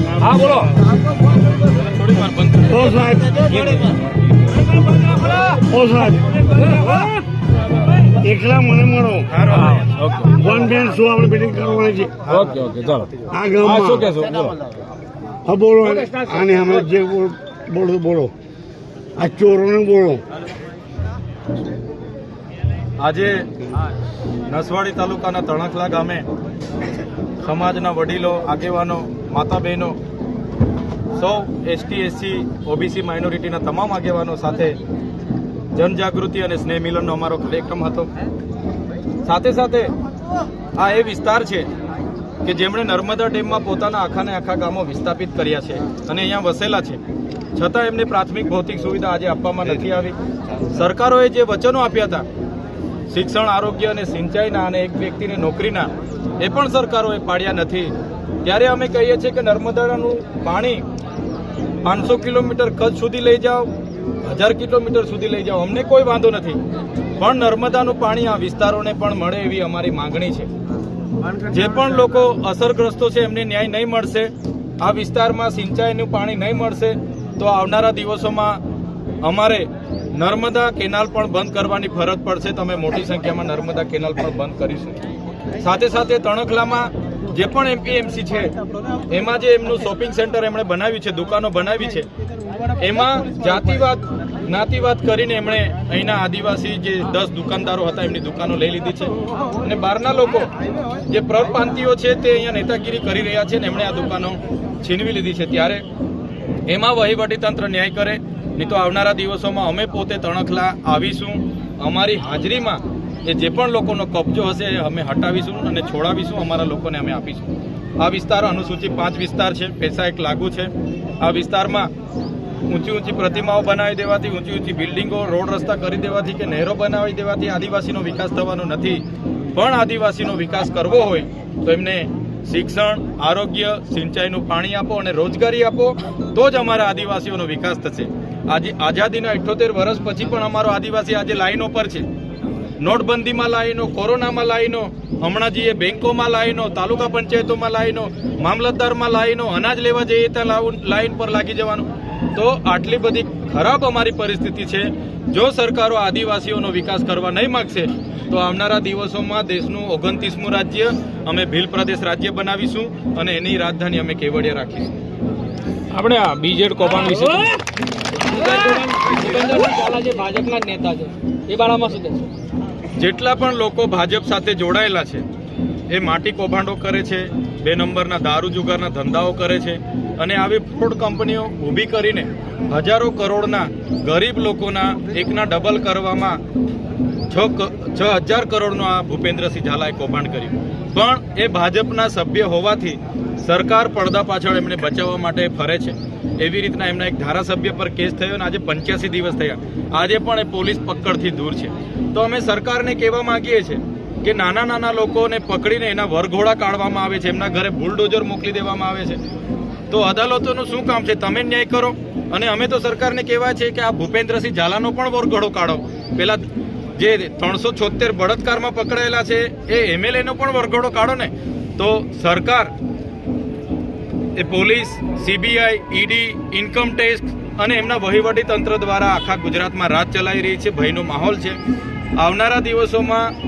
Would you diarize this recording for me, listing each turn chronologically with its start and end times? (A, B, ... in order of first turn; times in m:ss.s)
0:00.2-0:00.7 A
0:01.7-0:03.0 B
0:02.7-0:03.8 C
0:05.5-0:06.5 C
0:08.1-0:09.3 C
0:09.3-0:10.3 B
0:09.6-0:10.1 A
0:10.3-0:12.2 C
0:12.3-0:12.6 B
0:12.3-0:14.6 A
0:13.3-0:14.1 C
0:15.5-0:18.3 C
0:16.0-0:16.8 A
0:19.2-0:20.2 C
0:23.0-0:23.5 B
0:24.5-0:26.3 B
0:27.4-0:30.0 B
0:31.1-0:34.8 B
0:35.7-0:38.1 B
0:39.2-0:39.9 B
0:40.8-0:41.7 B
0:42.4-0:47.0 B
0:47.6-0:50.2 B
0:50.7-0:52.2 B
0:53.1-1:00.8 B
1:01.8-1:03.7 B
1:04.2-1:06.6 B
1:07.2-1:10.5 B
1:11.4-1:18.6 B
1:19.2-1:25.0 B
1:25.6-1:28.5 B
1:29.1-1:32.1 B
1:32.8-1:40.5 B
1:41.1-1:45.8 B
1:46.7-2:01.9 B
2:02.7-2:22.1 B
2:22.8-2:44.9 B
2:45.9-2:47.6 A
2:48.2-2:52.3 A
2:53.0-2:55.2 B
2:55.9-3:06.4 B
3:07.3-3:29.2 B
3:29.9-3:36.4 B
3:37.0-3:42.7 B
3:44.4-3:51.6 B
3:52.2-3:53.3 B